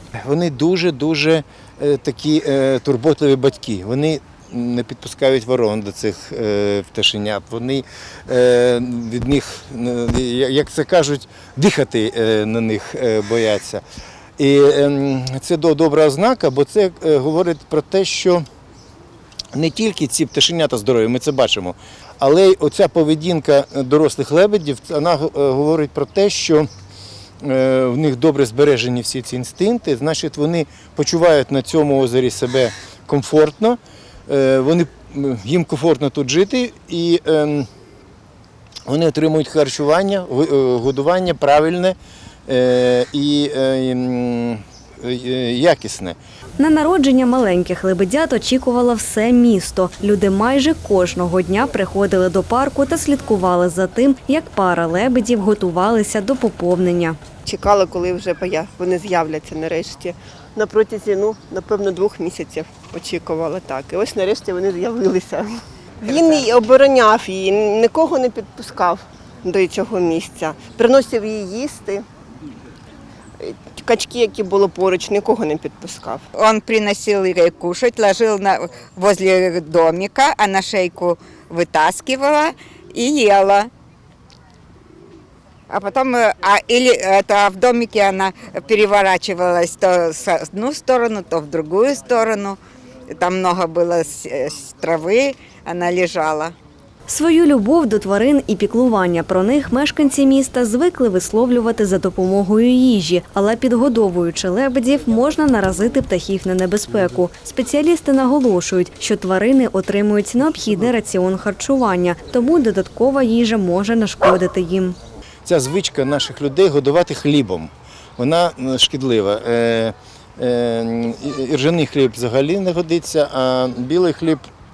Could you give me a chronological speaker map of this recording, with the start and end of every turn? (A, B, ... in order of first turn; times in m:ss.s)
0:00.2-0:13.8 A
0:14.4-0:18.4 A
0:19.5-0:26.7 A
0:27.4-0:37.7 A
0:38.9-0:42.0 A
0:42.5-0:46.2 A
0:46.6-0:57.2 B
0:57.5-1:12.0 C
1:13.4-1:16.3 C
1:16.3-1:23.7 D
1:25.7-1:36.6 D
1:37.1-1:55.0 B
1:55.4-2:04.4 A